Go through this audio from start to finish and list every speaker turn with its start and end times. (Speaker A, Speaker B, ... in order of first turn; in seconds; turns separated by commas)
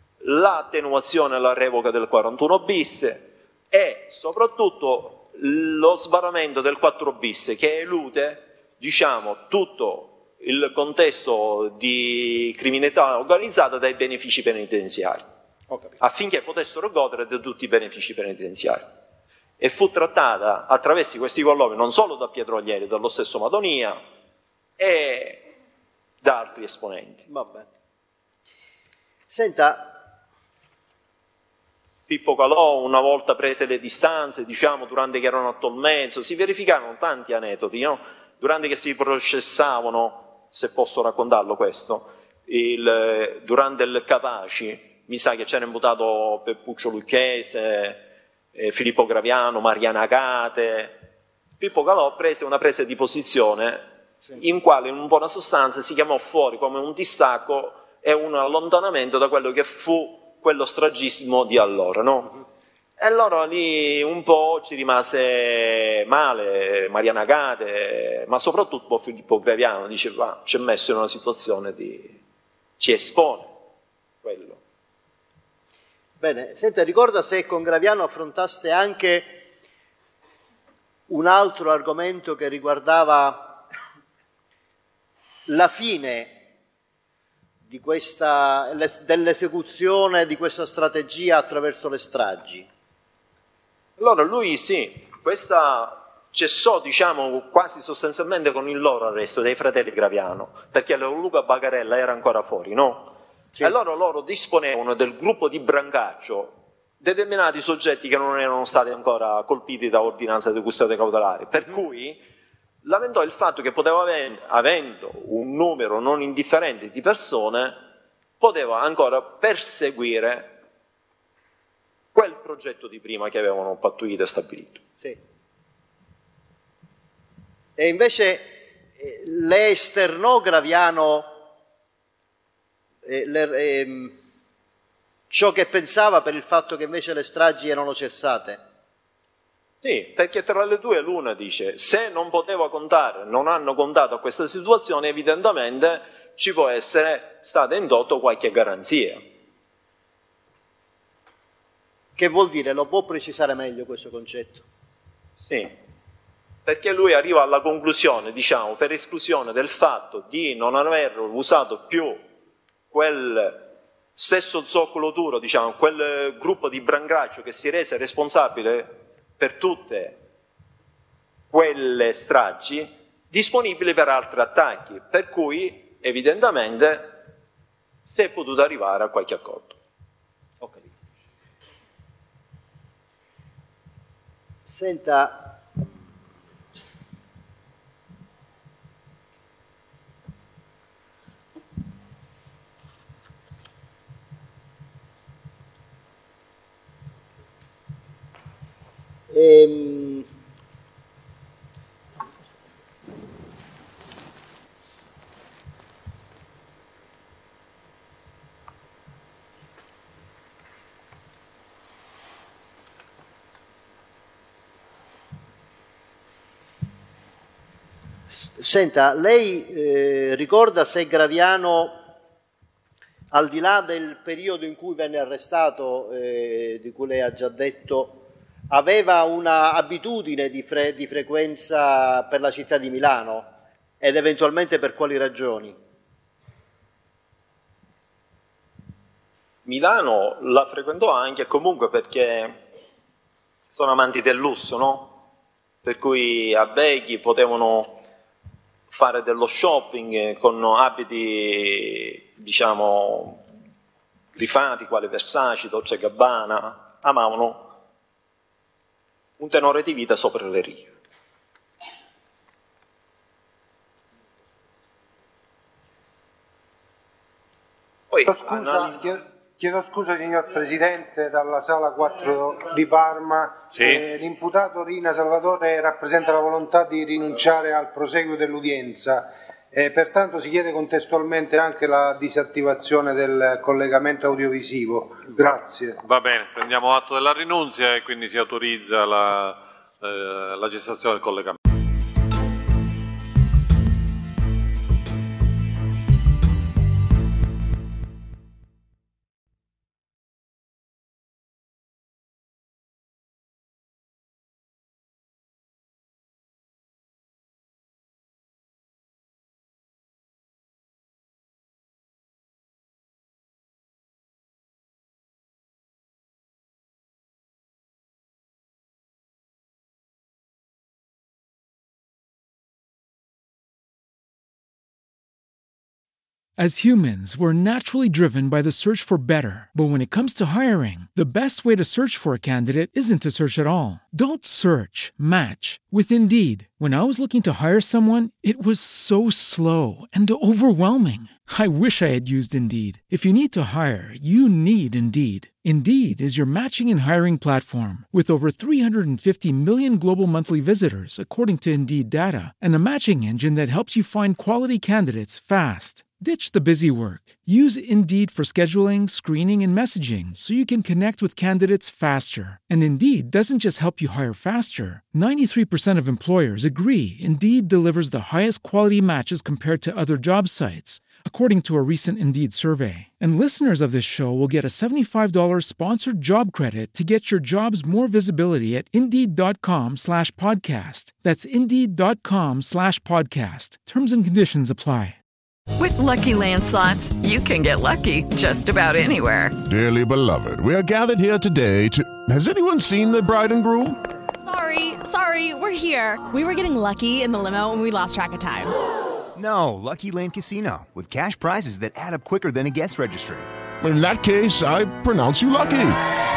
Speaker A: 0.2-15.2, Speaker B: 15.7-15.9, Speaker A: 16.0-18.9, Speaker A: 19.6-24.0, Speaker A: 24.8-25.4, Speaker A: 26.2-27.3, Speaker B: 27.3-27.7, Speaker B: 29.3-30.0, Speaker A: 32.1-51.0, Speaker A: 51.6-53.9, Speaker A: 54.4-62.4, Speaker A: 63.0-72.2, Speaker A: 72.8-73.5, Speaker A: 74.2-74.6, Speaker B: 76.2-79.4, Speaker B: 81.1-83.6, Speaker B: 85.5-86.4, Speaker B: 87.7-92.7, Speaker A: 94.0-112.2, Speaker A: 112.8-117.8, Speaker A: 118.4-120.6, Speaker A: 122.1-124.8, Speaker B: 127.8-131.3, Speaker B: 133.0-134.2, Speaker B: 135.3-138.6, Speaker A: 139.8-149.2, Speaker B: 152.2-154.6, Speaker A: 155.4-155.7, Speaker A: 156.7-162.2, Speaker A: 162.9-170.2, Speaker A: 171.5-177.2, Speaker A: 178.1-179.8, Speaker B: 180.6-180.9, Speaker B: 184.7-185.9, Speaker B: 199.3-200.2, Speaker B: 218.4-222.0, Speaker B: 223.3-235.8, Speaker A: 239.6-242.6, Speaker A: 243.7-245.2, Speaker A: 245.8-248.0, Speaker A: 248.9-253.4, Speaker A: 254.3-257.7, Speaker A: 259.4-260.9, Speaker A: 268.1-269.0, Speaker C: 268.2-286.0, Speaker D: 273.7-274.0, Speaker D: 286.0-291.6, Speaker E: 326.6-385.2, Speaker F: 385.8-389.6, Speaker G: 389.7-394.0, Speaker H: 394.4-398.7, Speaker I: 399.3-403.5, Speaker G: 403.8-406.0